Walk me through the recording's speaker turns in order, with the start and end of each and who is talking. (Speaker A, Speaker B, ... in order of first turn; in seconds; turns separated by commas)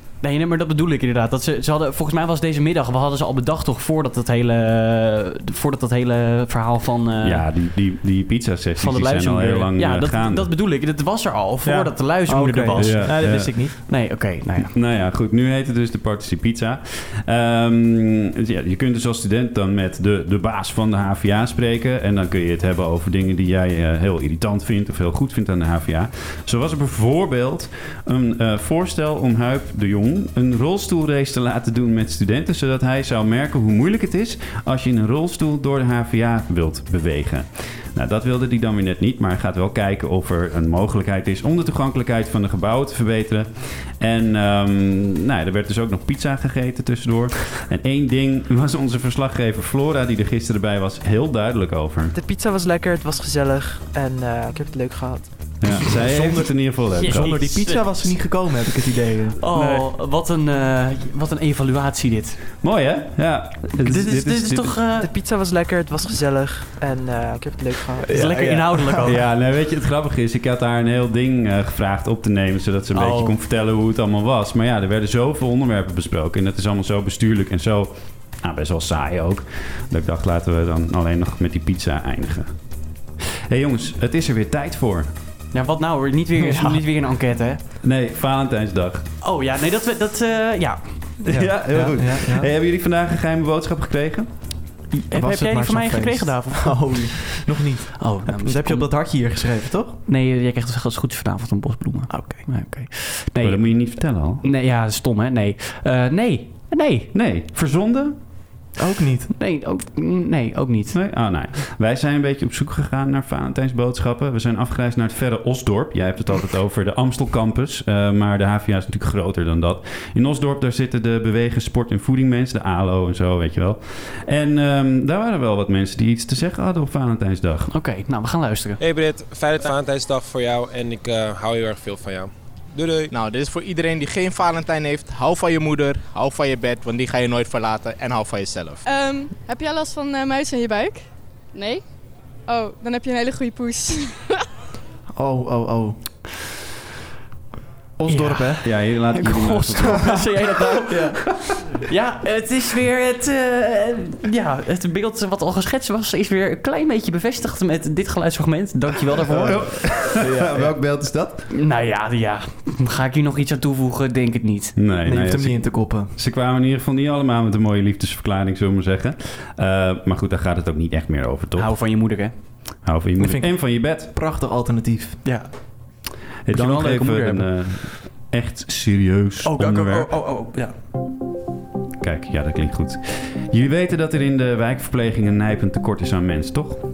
Speaker A: 0.2-7.6, Speaker B: 7.2-10.5, Speaker A: 8.8-14.7, Speaker C: 11.6-13.7, Speaker B: 12.8-14.0, Speaker B: 14.6-52.1, Speaker D: 52.1-55.7, Speaker B: 55.6-57.4, Speaker C: 56.1-56.4, Speaker A: 56.9-58.8, Speaker C: 57.0-59.4, Speaker A: 59.4-62.4, Speaker B: 59.5-59.9, Speaker B: 62.6-64.8, Speaker A: 63.8-65.1, Speaker D: 65.0-68.1, Speaker A: 68.0-69.2, Speaker C: 68.1-68.9, Speaker B: 69.0-82.5, Speaker A: 72.9-73.3, Speaker B: 83.5-85.1, Speaker A: 85.5-87.6, Speaker B: 87.8-89.1, Speaker A: 89.2-91.3, Speaker B: 91.3-94.3, Speaker C: 91.4-92.5, Speaker A: 95.1-97.4, Speaker C: 95.1-100.0, Speaker A: 98.0-98.9, Speaker A: 100.0-107.1, Speaker C: 102.1-102.5, Speaker B: 103.4-104.4, Speaker B: 107.1-108.1, Speaker C: 108.8-109.3, Speaker A: 109.3-111.0, Speaker B: 110.9-127.7, Speaker A: 127.7-128.8, Speaker E: 128.8-133.1, Speaker F: 133.1-138.8, Speaker G: 138.8-141.8, Speaker G: 142.4-144.4, Speaker C: 145.1-146.1, Speaker C: 148.0-148.7, Speaker A: 148.1-159.7, Speaker B: 148.6-150.2, Speaker C: 150.9-151.2, Speaker C: 159.3-160.8, Speaker B: 159.4-161.5, Speaker A: 161.5-164.7, Speaker B: 164.8-171.8, Speaker C: 165.0-166.2, Speaker A: 171.6-172.3, Speaker B: 172.8-174.1, Speaker C: 173.2-175.2, Speaker A: 175.2-175.6, Speaker B: 176.5-180.1, Speaker A: 176.5-177.4, Speaker A: 179.4-180.7, Speaker B: 182.0-186.8